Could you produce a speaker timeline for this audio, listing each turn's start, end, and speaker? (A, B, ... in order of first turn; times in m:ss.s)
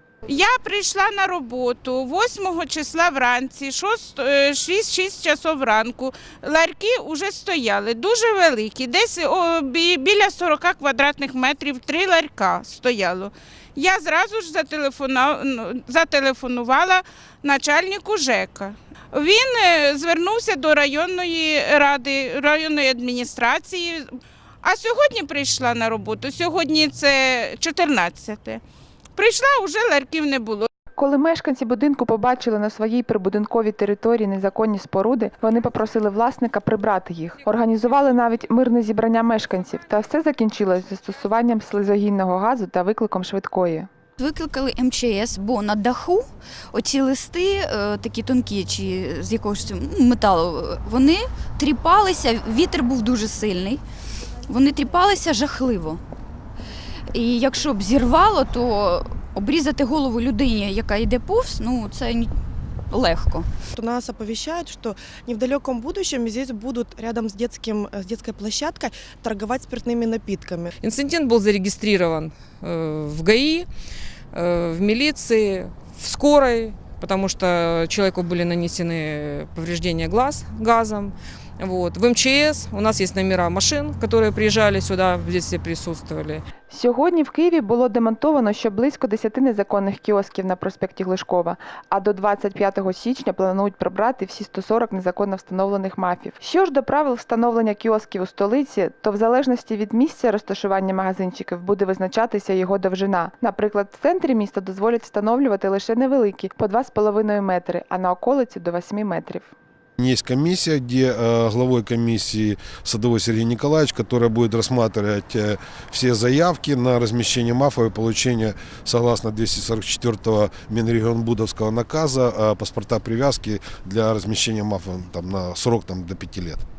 0:00.3-0:24.0 A
0:24.6-0:28.6 A
0:29.2-0:30.7 A
0:31.0-0:43.9 B
0:44.2-0:53.8 C
0:54.5-0:56.0 C
0:57.1-1:02.3 C
1:02.9-1:03.5 C
1:03.8-1:10.7 D
1:10.8-1:13.7 E
1:14.3-1:26.4 E
1:26.7-1:49.5 B
1:50.0-2:06.6 F